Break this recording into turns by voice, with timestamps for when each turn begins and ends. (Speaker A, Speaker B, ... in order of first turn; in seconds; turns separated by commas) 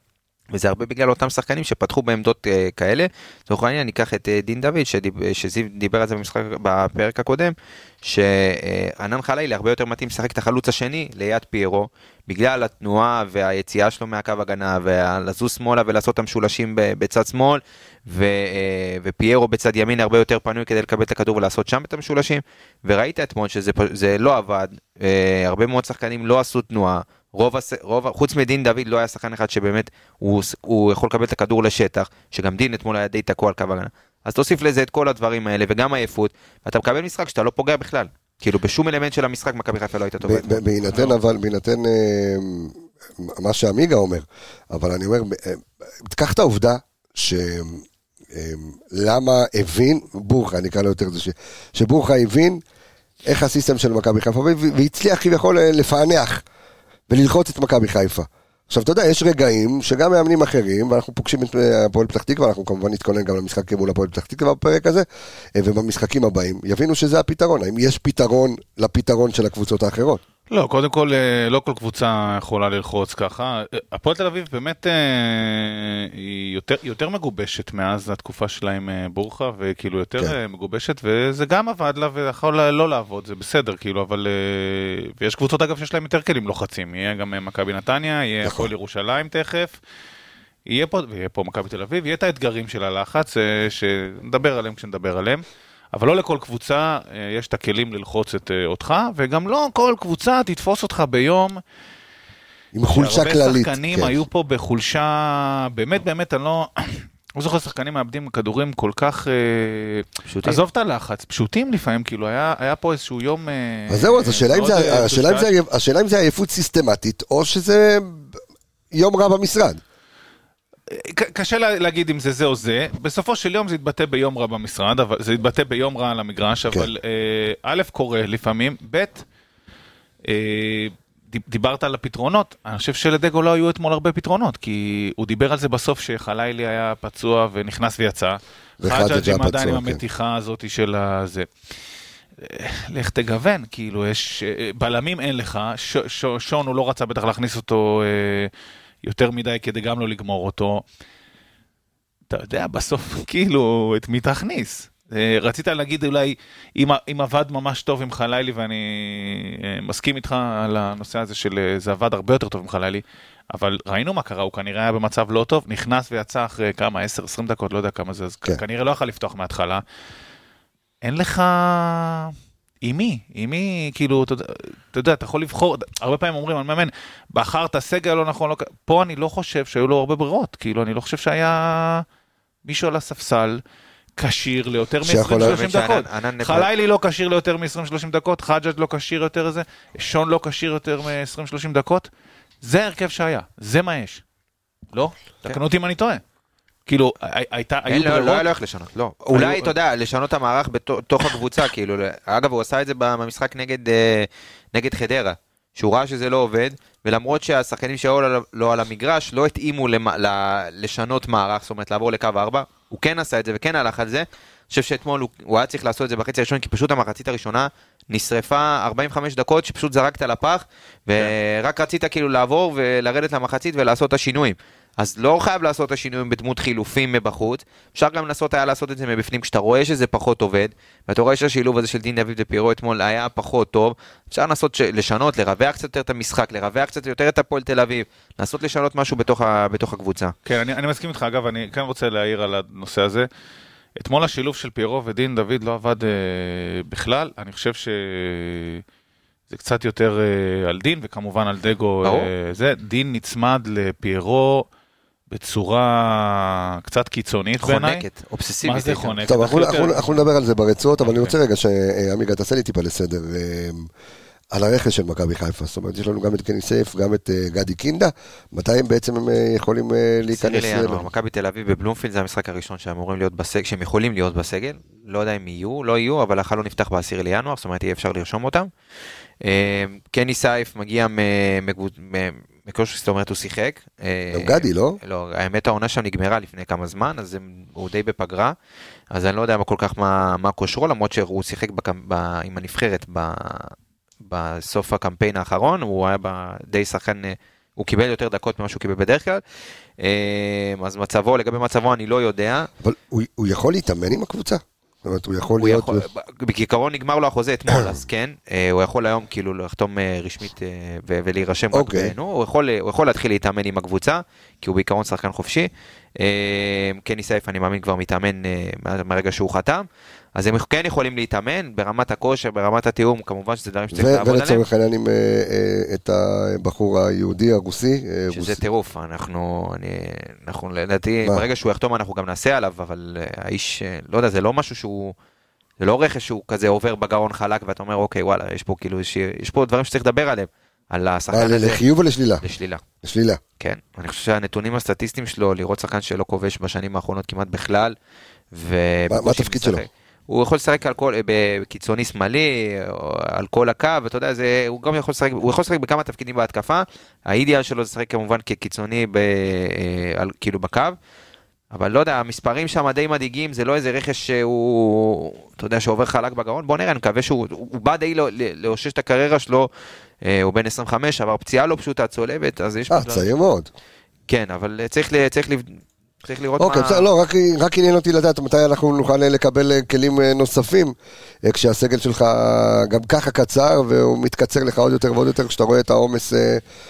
Speaker A: 0.5-40.6, Speaker B: 40.2-52.6, Speaker B: 53.3-56.4, Speaker B: 57.1-70.2, Speaker C: 70.5-89.8, Speaker B: 88.4-88.7, Speaker C: 90.7-101.6, Speaker B: 102.7-104.1, Speaker C: 102.9-115.5, Speaker A: 110.3-110.6, Speaker B: 113.9-118.4, Speaker B: 118.9-119.8, Speaker C: 120.9-129.2, Speaker C: 130.2-141.5, Speaker B: 138.8-140.0, Speaker C: 142.4-148.5, Speaker C: 149.0-150.8, Speaker C: 152.3-169.8, Speaker C: 171.0-182.0, Speaker C: 182.6-183.6, Speaker C: 184.2-192.1, Speaker B: 185.0-185.6, Speaker A: 185.4-186.7, Speaker C: 192.6-194.2, Speaker C: 194.9-196.2, Speaker C: 196.9-198.4, Speaker A: 197.8-240.3, Speaker C: 199.3-199.7, Speaker C: 240.4-243.3, Speaker C: 244.0-248.8, Speaker C: 249.5-254.7, Speaker A: 252.0-252.3, Speaker C: 255.3-258.0, Speaker A: 257.6-259.2, Speaker C: 258.6-260.2, Speaker B: 259.2-263.9, Speaker C: 261.0-261.3, Speaker B: 264.5-271.0, Speaker A: 270.3-278.7, Speaker A: 279.4-288.5, Speaker B: 284.3-285.0, Speaker A: 289.1-299.4, Speaker A: 300.0-302.7, Speaker B: 302.8-306.0, Speaker A: 305.6-324.6, Speaker B: 311.7-312.1, Speaker B: 323.9-328.6, Speaker A: 328.3-335.1, Speaker A: 335.8-341.8, Speaker B: 341.3-342.4, Speaker A: 342.4-342.8, Speaker B: 343.0-343.4, Speaker A: 343.6-347.9, Speaker A: 348.5-360.9, Speaker B: 349.1-349.8, Speaker A: 361.7-369.7, Speaker A: 370.2-373.3, Speaker B: 372.9-373.7, Speaker A: 374.3-377.0, Speaker B: 376.6-380.9, Speaker B: 381.4-386.6